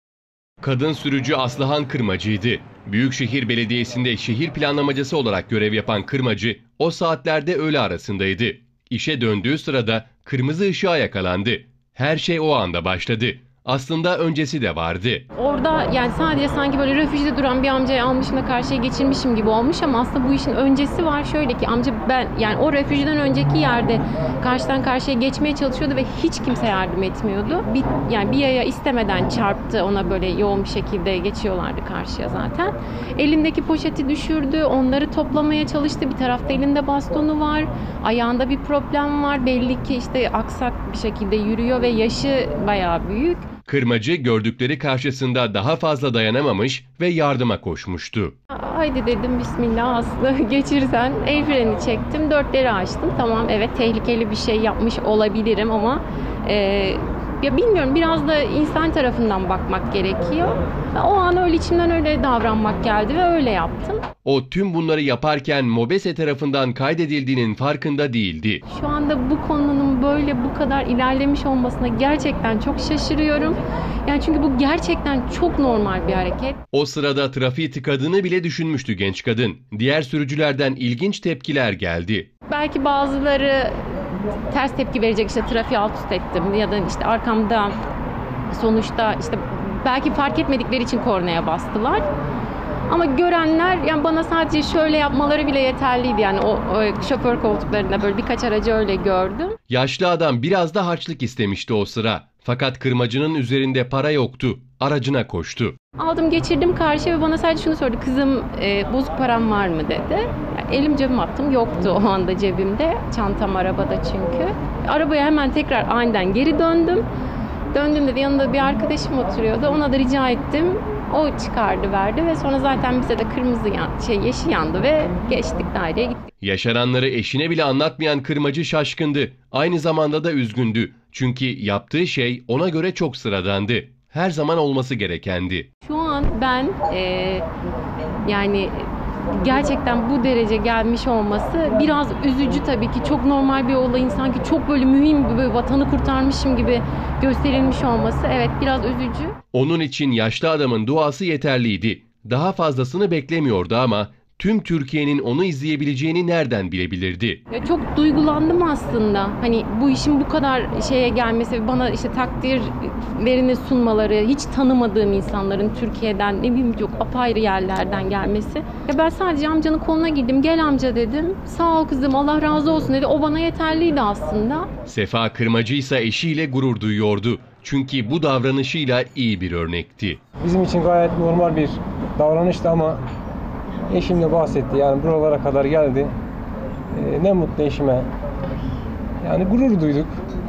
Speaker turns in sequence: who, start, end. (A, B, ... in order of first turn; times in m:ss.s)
0:00.6-0:15.2 A
0:15.4-0:43.5 B
0:43.7-0:48.3 A
0:48.5-1:04.0 B
1:04.2-1:08.6 A
1:08.7-1:16.6 B
1:16.7-1:22.3 A
1:22.5-1:23.7 B
1:24.5-1:27.8 B
1:28.5-1:32.1 B
1:32.9-1:39.6 B
1:39.7-1:45.8 A
1:46.0-1:57.0 B
1:57.7-2:06.2 B
2:06.4-2:15.7 A
2:15.9-2:17.5 B
2:18.2-2:29.3 B
2:29.5-2:37.4 A
2:37.5-2:54.7 B
2:54.9-3:00.2 A
3:00.4-3:03.0 C
3:03.9-3:06.1 C
3:06.9-3:08.1 C
3:09.2-3:10.1 C